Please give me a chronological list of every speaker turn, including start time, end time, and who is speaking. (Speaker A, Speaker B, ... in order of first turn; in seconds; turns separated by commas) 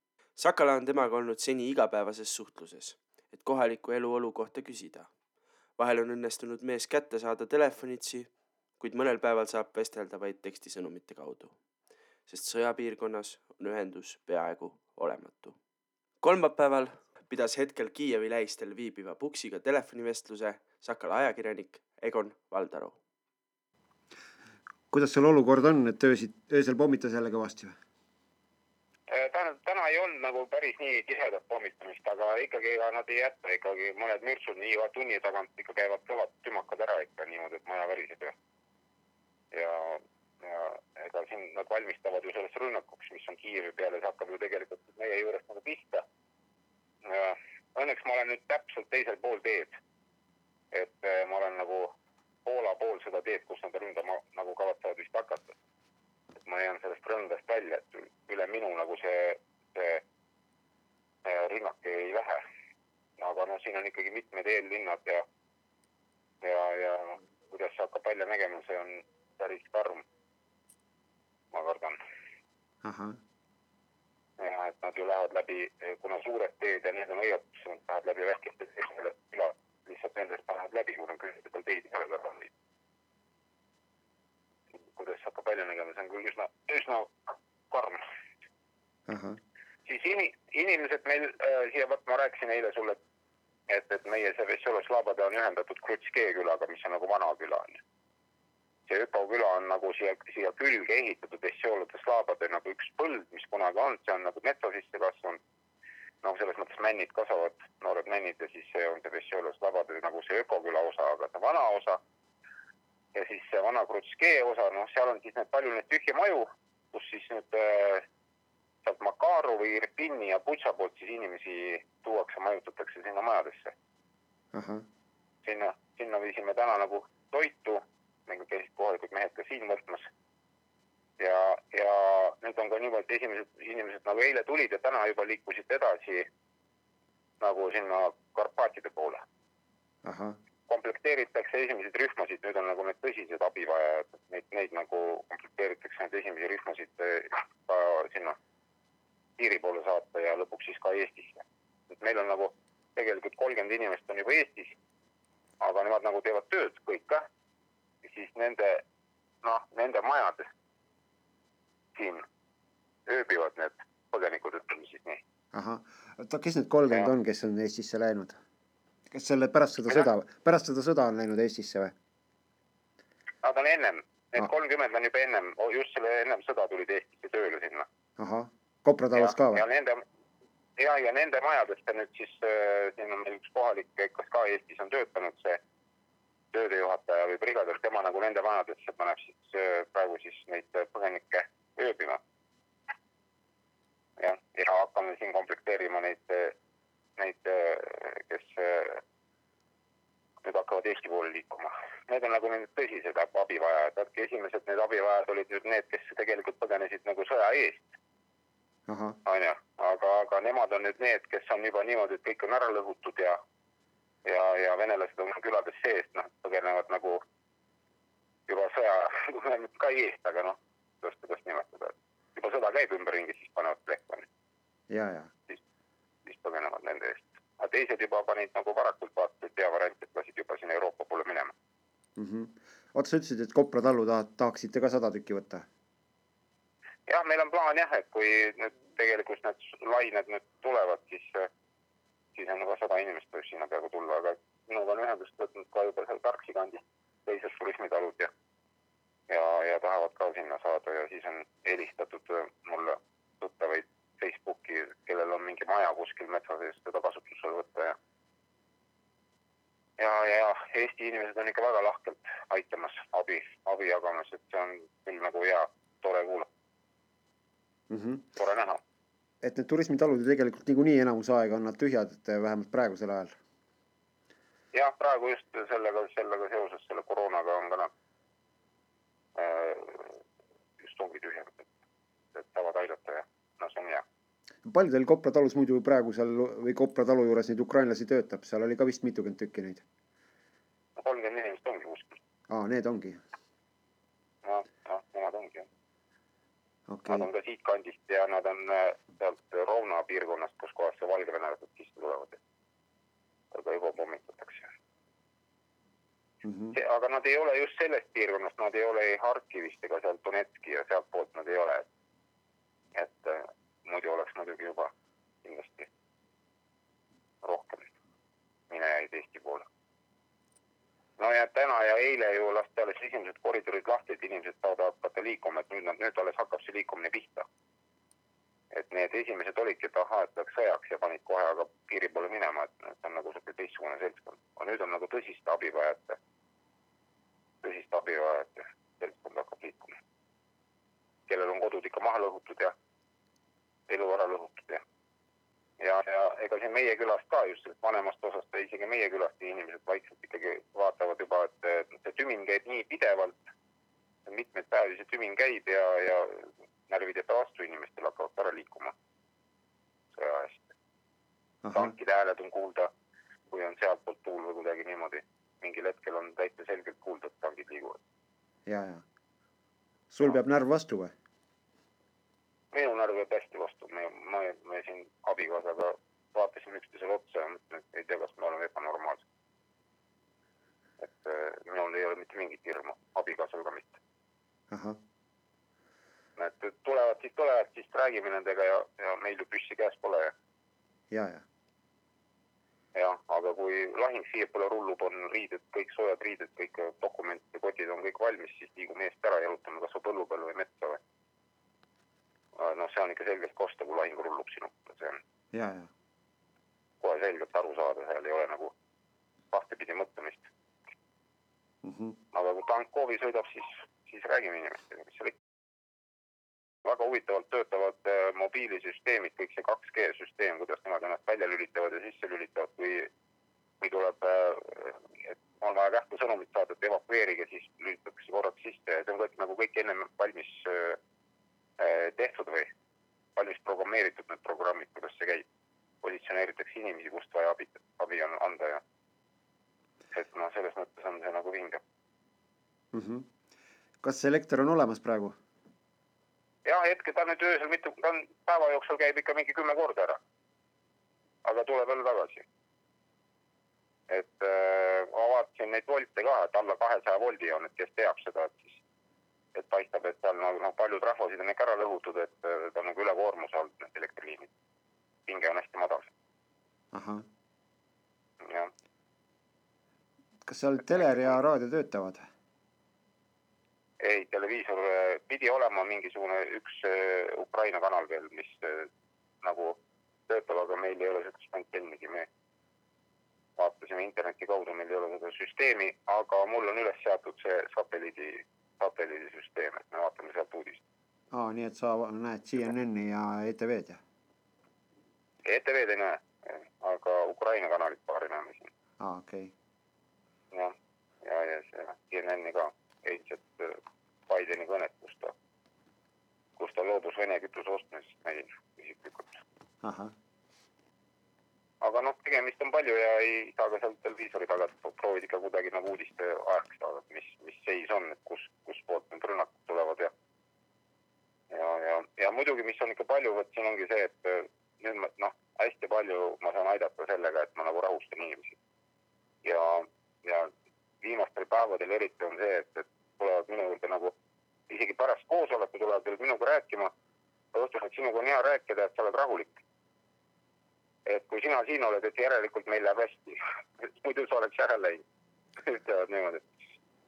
Speaker A: 0.4-5.1, Speaker A: 5.8-11.6, Speaker A: 12.3-15.6, Speaker A: 16.2-23.0, Speaker B: 24.9-27.8, Speaker C: 29.1-38.4, Speaker C: 39.5-46.0, Speaker C: 47.0-49.8, Speaker C: 50.7-55.5, Speaker C: 56.5-60.0, Speaker C: 61.2-62.4, Speaker C: 63.2-65.2, Speaker C: 66.4-70.0, Speaker C: 71.5-72.0, Speaker B: 72.8-73.2, Speaker C: 74.4-82.5, Speaker C: 84.9-87.1, Speaker C: 87.7-88.0, Speaker B: 89.1-89.4, Speaker C: 89.9-93.0, Speaker C: 93.7-97.8, Speaker C: 98.9-105.4, Speaker C: 106.2-112.0, Speaker C: 113.1-118.1, Speaker C: 118.8-123.7, Speaker B: 124.5-124.8, Speaker C: 125.4-130.1, Speaker C: 131.2-136.3, Speaker C: 137.4-139.2, Speaker B: 140.0-140.4, Speaker C: 140.7-148.4, Speaker C: 149.4-154.8, Speaker C: 155.6-157.3, Speaker C: 158.0-158.8, Speaker C: 159.4-160.5, Speaker C: 161.9-162.2, Speaker C: 163.1-165.2, Speaker B: 165.5-168.4, Speaker B: 169.1-171.9, Speaker C: 173.4-177.9, Speaker B: 178.2-179.6, Speaker C: 179.1-180.0, Speaker C: 180.8-185.6, Speaker C: 186.5-192.2, Speaker C: 194.2-196.6, Speaker C: 197.2-199.0, Speaker C: 200.4-207.9, Speaker B: 208.9-209.2, Speaker C: 209.2-213.4, Speaker C: 214.2-217.2, Speaker C: 218.5-224.3, Speaker B: 224.9-225.3, Speaker C: 226.2-231.5, Speaker B: 232.2-235.7, Speaker C: 237.1-241.5, Speaker C: 242.3-248.3, Speaker C: 249.3-258.0, Speaker C: 260.0-266.5, Speaker B: 267.9-268.3, Speaker C: 268.4-268.8, Speaker B: 269.4-273.4, Speaker C: 274.7-277.9, Speaker C: 279.4-280.2, Speaker C: 280.8-281.7, Speaker C: 282.3-284.0, Speaker B: 284.6-289.8, Speaker C: 291.0-292.2, Speaker B: 292.5-293.2, Speaker C: 294.4-295.7, Speaker B: 296.9-297.3, Speaker C: 297.1-302.4, Speaker C: 303.5-304.7, Speaker B: 306.4-306.8, Speaker C: 306.7-311.9, Speaker C: 312.9-314.9, Speaker C: 315.4-315.9, Speaker C: 317.4-317.9, Speaker C: 318.7-319.7, Speaker C: 321.2-327.4, Speaker C: 328.7-336.2, Speaker C: 337.6-340.0, Speaker C: 341.3-342.7, Speaker C: 343.9-344.8, Speaker C: 345.8-353.4, Speaker C: 354.2-358.9, Speaker C: 360.1-360.7, Speaker B: 361.6-361.9, Speaker C: 361.7-362.9, Speaker C: 363.5-368.0, Speaker B: 368.6-369.0, Speaker B: 370.1-371.1, Speaker C: 372.7-379.2, Speaker C: 381.0-384.0, Speaker B: 384.7-385.0, Speaker C: 386.4-390.3, Speaker B: 391.1-391.4, Speaker C: 392.9-401.0, Speaker C: 402.5-405.2, Speaker B: 405.5-405.9, Speaker C: 407.0-408.7, Speaker C: 409.5-410.5, Speaker B: 411.8-412.1, Speaker C: 412.3-415.4, Speaker C: 416.8-423.1, Speaker C: 423.8-431.0, Speaker C: 431.8-432.7, Speaker C: 433.4-435.4, Speaker C: 436.0-438.8, Speaker C: 440.1-441.8, Speaker B: 442.9-443.3, Speaker B: 444.0-445.4, Speaker C: 446.6-450.2, Speaker C: 451.4-452.4, Speaker C: 454.1-458.8, Speaker C: 459.5-464.5, Speaker C: 465.3-466.1, Speaker B: 466.9-467.2, Speaker C: 468.4-468.7, Speaker B: 470.4-472.3, Speaker C: 474.0-478.9, Speaker C: 479.4-482.3, Speaker C: 483.6-490.8, Speaker B: 491.3-494.0, Speaker C: 495.4-498.7, Speaker B: 499.0-499.5, Speaker C: 500.5-505.3, Speaker C: 506.6-509.4, Speaker B: 509.8-510.1, Speaker C: 511.8-520.1, Speaker C: 521.5-528.6, Speaker C: 529.4-534.1, Speaker C: 534.7-536.9, Speaker C: 537.5-539.6, Speaker C: 541.0-545.0, Speaker C: 545.6-546.5